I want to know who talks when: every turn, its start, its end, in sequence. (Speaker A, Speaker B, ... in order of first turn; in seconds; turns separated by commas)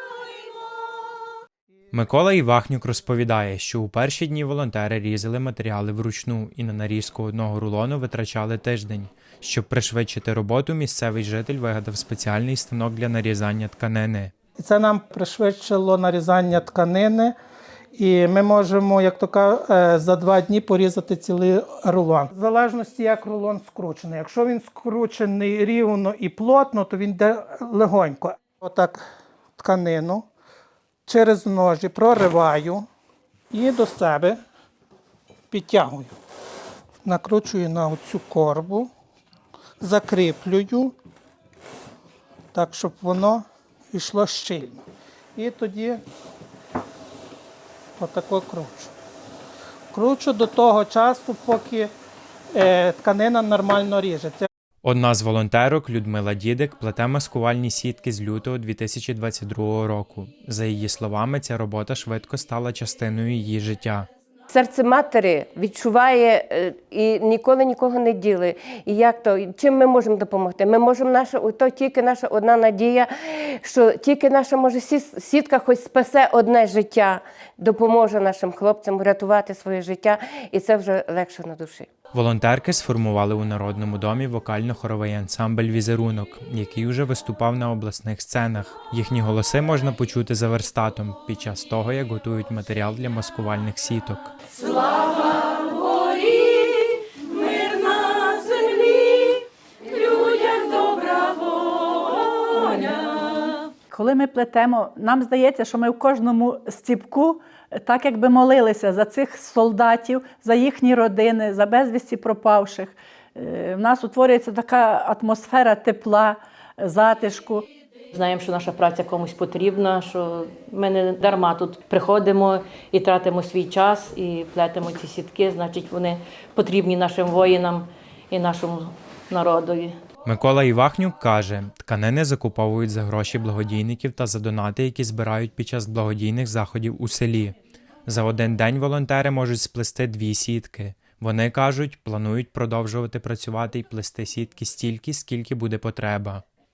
Speaker A: 1.9-14.3, Speaker B: 14.6-17.3, Speaker B: 17.9-29.0, Speaker B: 29.6-30.2, Speaker B: 31.1-32.9, Speaker B: 33.5-34.4, Speaker B: 35.5-36.1, Speaker B: 37.0-38.9, Speaker B: 39.8-40.9, Speaker B: 42.5-44.8, Speaker B: 45.4-46.0, Speaker B: 48.0-48.9, Speaker B: 49.9-51.9, Speaker B: 52.5-54.5, Speaker A: 54.8-64.1, Speaker C: 64.5-81.9, Speaker A: 82.1-94.3, Speaker D: 100.5-101.3, Speaker D: 102.7-103.1, Speaker D: 103.9-117.6, Speaker E: 118.1-129.9, Speaker A: 130.2-137.5, Speaker A: 138.1-146.4